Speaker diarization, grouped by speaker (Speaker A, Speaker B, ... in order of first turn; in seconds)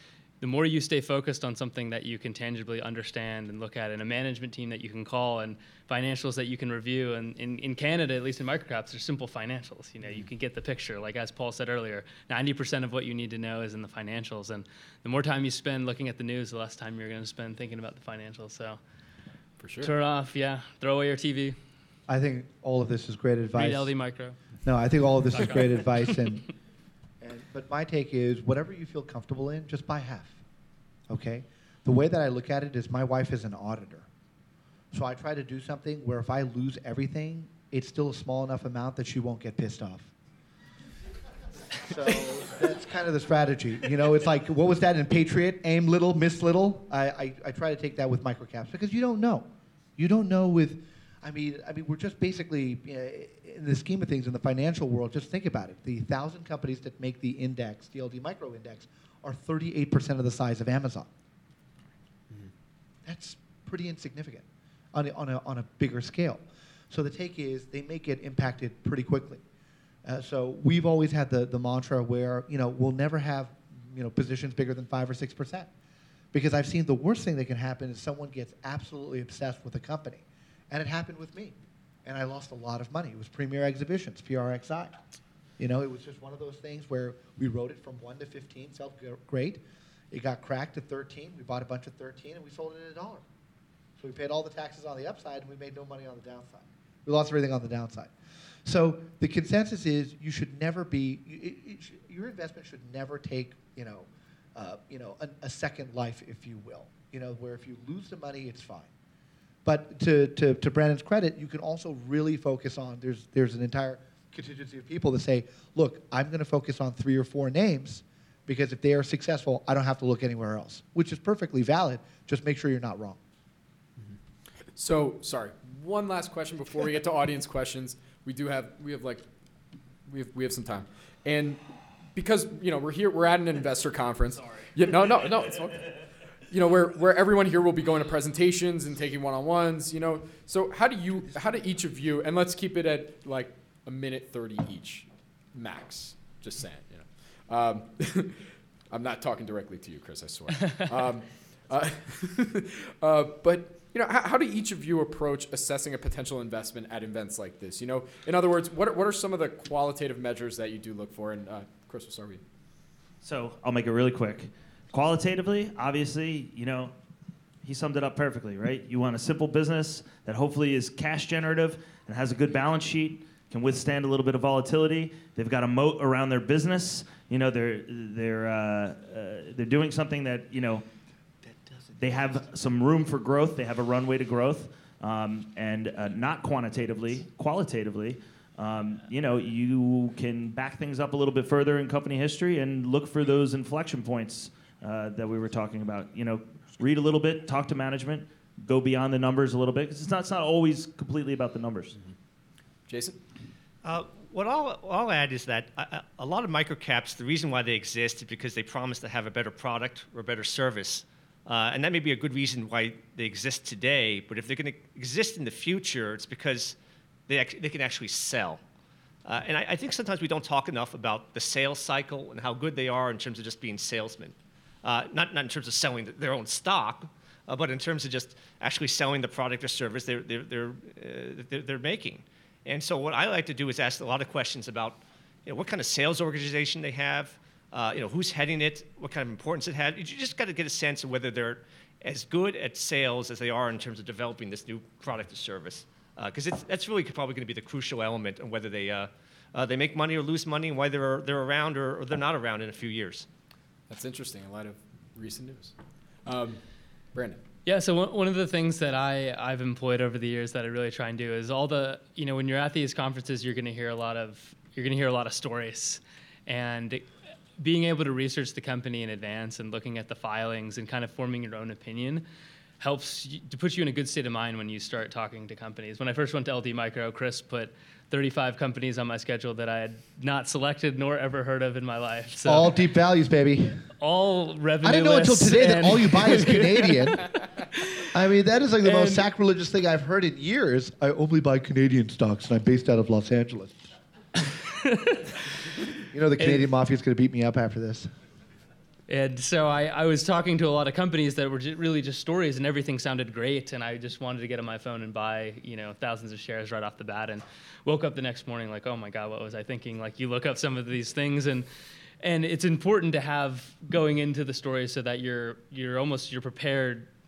Speaker A: 0.4-18.8, 19.8-21.6, 23.5-24.4, 25.3-26.1, 257.6-267.0, 267.6-272.2, 272.8-282.7, 284.0-286.9, 288.8-289.2, 294.8-295.3, 296.4-296.6, 299.1-311.6, 312.2-317.1
Speaker B: 19.6-19.9, 124.7-129.2, 130.1-162.4, 202.9-203.2, 253.9-255.7, 256.2-256.6, 257.1-257.4
Speaker C: 22.1-23.9, 24.6-26.5, 27.2-30.4, 31.1-34.1, 34.9-40.1, 41.8-61.1, 63.0-69.4, 70.0-75.7, 76.3-85.0, 85.6-93.2, 94.0-98.1, 98.6-108.9, 109.6-123.2, 181.4-182.0, 282.4-283.8, 284.8-287.3, 288.1-293.8, 296.1-298.1
Speaker D: 163.2-166.9, 167.6-180.8, 182.0-201.9
Speaker E: 203.8-216.8, 217.3-218.6, 219.2-253.3